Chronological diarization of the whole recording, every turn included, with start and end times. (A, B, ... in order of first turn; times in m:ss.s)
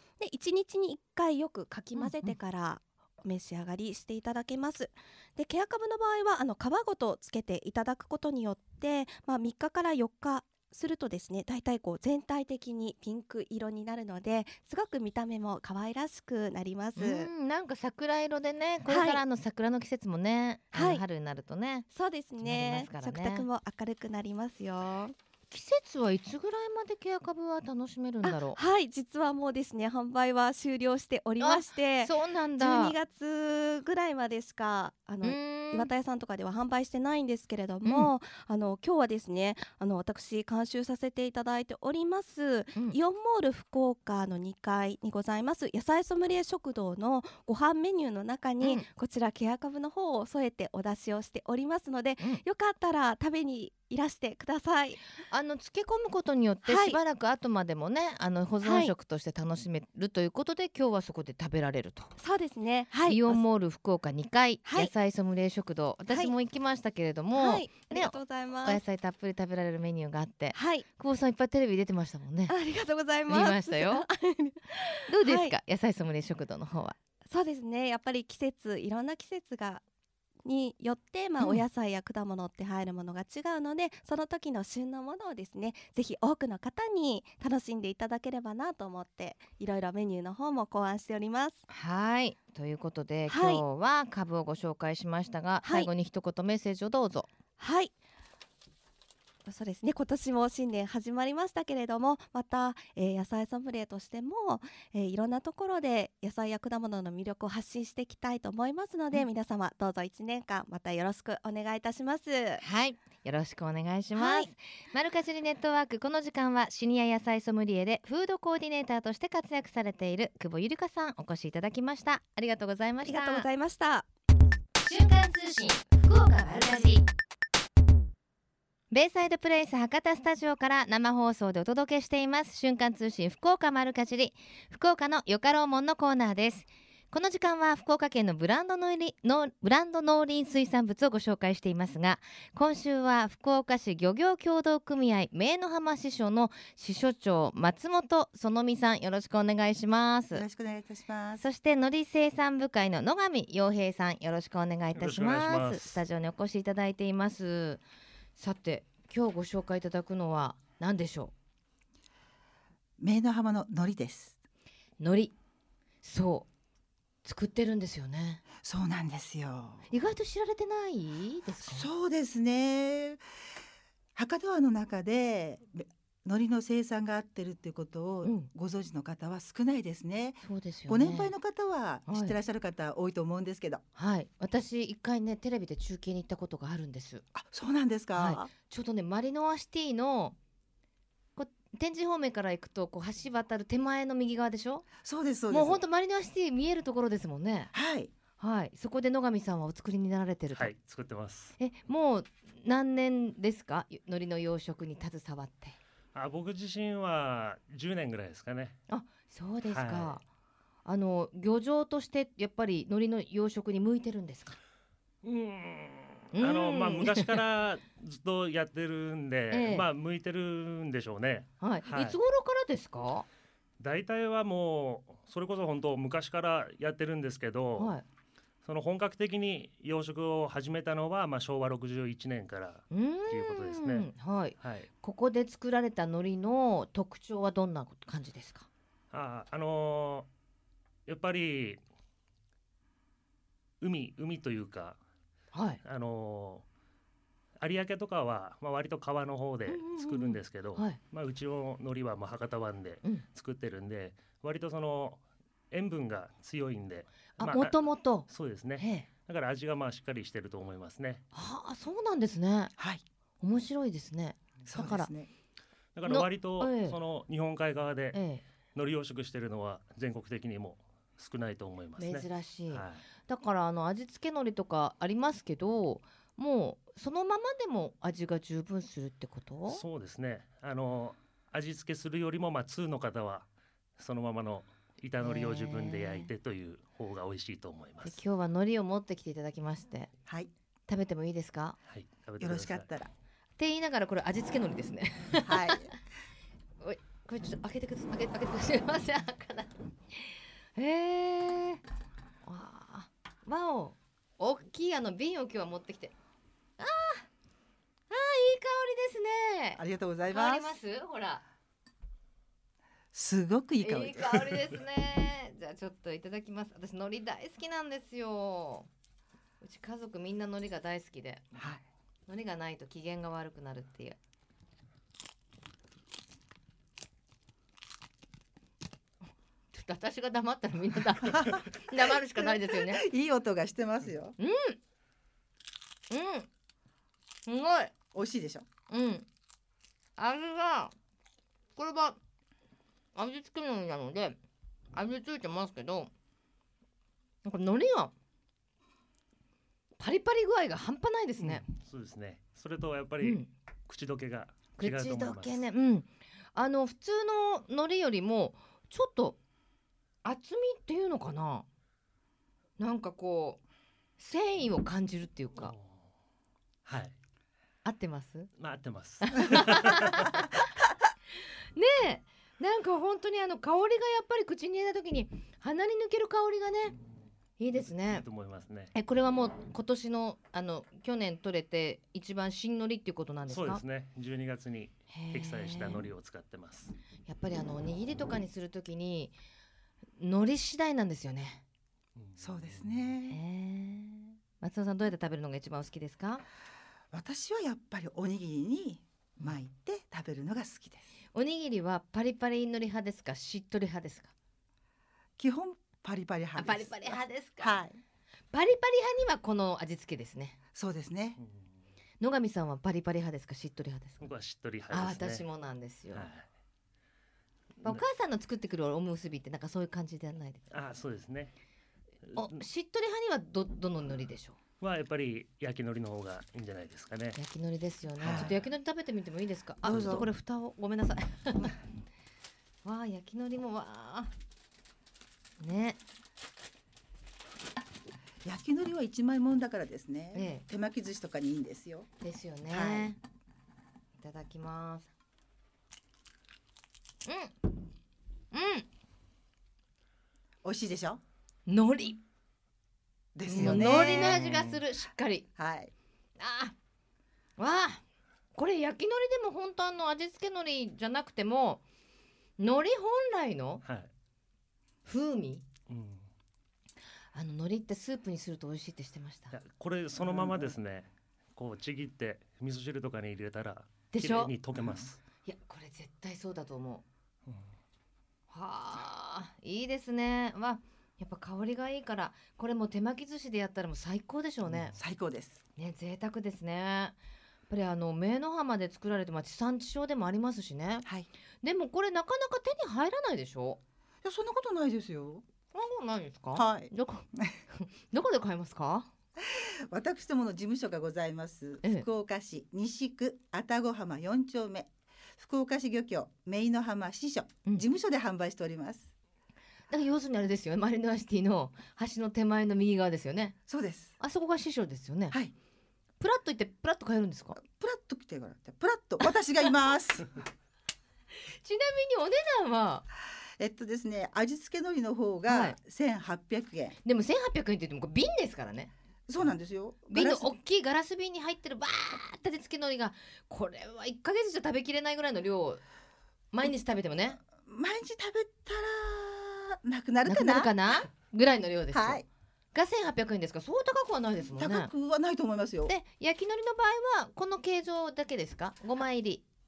0:00.2-0:17.3 A
0:02.0-0:02.3 B
0:17.0-0:21.9 B
0:18.9-0:19.2 A
0:20.7-0:21.0 A
0:21.9-0:25.1 A
0:22.4-0:23.4 B
0:25.5-0:28.6 B
0:28.2-0:55.0 A
0:31.4-0:32.9 B
0:35.2-0:35.9 B
0:37.8-0:38.1 B
0:48.6-0:48.8 B
0:55.3-1:02.1 B
0:56.6-0:57.0 A
0:58.6-0:58.9 A
1:02.2-1:03.4 A
1:03.0-1:12.5 B
1:04.6-1:04.9 A
1:07.3-1:08.8 A
1:10.5-1:10.8 A
1:12.5-1:15.5 A
1:13.3-1:14.0 B
1:15.1-1:17.0 B
1:17.2-1:19.8 A
1:20.4-1:31.6 A
1:21.4-1:21.6 B
1:31.7-1:37.3 B
1:33.3-1:33.6 A
1:35.6-1:35.9 A
1:37.6-1:37.9 A
1:39.4-1:52.6 A
1:52.6-2:03.5 B
1:54.1-1:54.5 A
2:03.0-2:04.0 A
2:04.8-2:07.0 B
2:08.9-2:30.4 B
2:30.3-2:31.4 C
2:31.4-2:37.8 B
2:34.9-2:36.0 D
2:38.4-2:41.3 B
2:43.0-2:44.4 C
2:45.0-2:45.3 B
2:46.0-2:46.5 B
2:47.2-2:48.4 B
2:48.6-2:49.8 C
2:49.9-2:51.9 B
2:51.6-2:53.2 C
2:54.2-3:03.8 C
3:00.4-3:01.3 B
3:02.1-3:02.3 B
3:04.0-3:07.2 B
3:07.3-3:08.5 C
3:08.2-3:10.4 B
3:11.4-3:14.9 B
3:15.0-3:15.8 C
3:15.5-3:17.7 B
3:17.7-3:18.1 C
3:18.4-3:20.7 B
3:20.5-3:21.5 D
3:21.6-3:25.8 B
3:26.1-3:28.8 D
3:28.9-3:30.2 B
3:29.7-3:30.2 D
3:30.8-3:34.6 B
3:35.2-3:42.2 D
3:36.3-3:37.3 B
3:39.5-3:39.8 B
3:41.6-3:43.2 B
3:43.8-3:47.9 D
3:47.8-3:48.0 B
3:48.6-3:54.9 D
3:52.9-3:58.7 B
3:59.1-4:00.3 D
4:01.0-4:01.8 D
4:03.8-4:05.0 D
4:05.5-4:05.8 B
4:05.8-4:06.6 D
4:07.6-4:21.2 D
4:09.7-4:11.0 B
4:17.4-4:19.1 B
4:21.3-4:22.7 B
4:22.8-4:23.0 C
4:23.4-4:25.1 B
4:24.6-4:25.3 C
4:25.9-4:28.2 D
4:26.0-4:27.0 B
4:28.1-4:28.4 B
4:28.7-4:33.0 D
4:32.0-4:39.8 B
4:39.7-4:48.2 D
4:45.2-4:46.3 B
4:48.0-4:50.1 B
4:50.9-4:51.8 B
4:51.9-4:52.9 D
4:52.4-4:53.1 C
4:53.6-4:55.8 B
4:55.4-4:56.0 C
4:56.8-5:01.8 B
5:02.4-5:06.1 B
5:06.8-5:07.3 B
5:08.1-5:11.4 B
5:09.8-5:10.7 C
5:13.1-5:14.7 C
5:13.8-5:18.9 B
5:19.6-5:21.4 B
5:21.6-5:21.8 C
5:22.3-5:24.2 B
5:29.7-5:33.0 B
5:31.3-5:34.3 C
5:34.4-5:34.8 B
5:36.1-5:36.5 B
5:37.4-5:37.9 B
5:38.1-5:38.6 C
5:38.9-5:39.2 B
5:40.2-5:40.9 B
5:41.8-5:42.2 B
5:43.1-5:44.4 B
5:44.9-5:46.1 B
5:47.4-5:48.1 B
5:50.0-5:51.6 B
5:51.4-5:55.6 D
5:53.2-5:53.5 B
5:54.8-5:59.4 B
6:00.2-6:01.6 B
6:02.8-6:03.6 B
6:04.2-6:05.7 B
6:05.6-6:06.0 D
6:06.8-6:07.2 D
6:07.8-6:08.5 B
6:08.6-6:10.4 D
6:09.2-6:10.6 B
6:11.7-6:17.0 B
6:17.6-6:18.2 B
6:17.7-6:18.9 D
6:18.9-6:23.8 B
6:23.5-6:26.9 D
6:25.1-6:26.0 B
6:27.2-6:29.3 B
6:30.2-6:31.6 B
6:32.2-6:33.1 D
6:32.4-6:33.4 C
6:33.3-6:36.4 B
6:37.1-6:41.1 C
6:41.3-6:44.3 B
6:45.4-6:48.0 C
6:46.6-6:47.8 B
6:48.5-6:50.6 B
6:50.7-6:51.4 C
6:51.4-6:51.7 D
6:52.2-6:54.3 B
6:54.2-6:55.4 D
6:54.9-6:56.3 B
6:56.1-6:56.5 D
6:57.8-7:00.7 B
7:00.7-7:01.5 D
7:02.3-7:02.6 D
7:02.3-7:04.6 B
7:04.8-7:07.4 D
7:07.4-7:11.8 B
7:08.2-7:08.6 D
7:08.2-7:08.5 C
7:09.8-7:10.2 C
7:09.9-7:10.2 D
7:12.8-7:14.3 B
7:15.6-7:16.0 B
7:18.4-7:22.1 C
7:20.3-7:20.6 B
7:22.2-7:23.2 B
7:22.7-7:23.1 C
7:24.2-7:25.1 B
7:27.2-7:27.7 B
7:28.5-7:28.8 B
7:30.6-7:31.2 C
7:31.7-7:32.2 B
7:33.3-7:34.4 C
7:33.5-7:35.5 B
7:33.6-7:34.8 D
7:35.6-7:35.9 C
7:36.4-7:36.7 B
7:37.6-7:38.0 B
7:38.5-7:41.8 B
7:42.6-7:43.8 B
7:43.8-7:44.1 D
7:45.0-7:45.6 B
7:45.9-7:46.2 D
7:47.3-7:49.5 B
7:49.5-7:55.2 D
7:50.2-7:50.7 C
7:54.1-7:54.5 B
7:55.4-7:57.0 B
7:58.5-8:05.0 B
8:04.7-8:05.0 D
8:05.0-8:05.6 C
8:05.8-8:07.2 B
8:07.7-8:11.0 B
8:11.6-8:13.8 B
8:14.2-8:15.4 C
8:15.7-8:19.1 B
8:16.5-8:17.5 C
8:19.4-8:29.1 C
8:29.9-8:33.6 B
8:33.7-8:34.1 C
8:34.2-8:35.4 B
8:36.2-8:37.6 B
8:37.6-8:40.4 C
8:41.6-8:43.0 B
8:43.6-8:47.0 C
8:45.5-8:45.8 B
8:47.0-8:48.9 B
8:49.3-8:50.5 C
8:50.1-8:55.8 B
8:56.5-8:57.4 B
8:57.6-9:00.7 C
9:00.2-9:02.2 B
9:01.9-9:02.2 C
9:02.7-9:04.9 B
9:04.6-9:05.9 C
9:05.8-9:09.4 B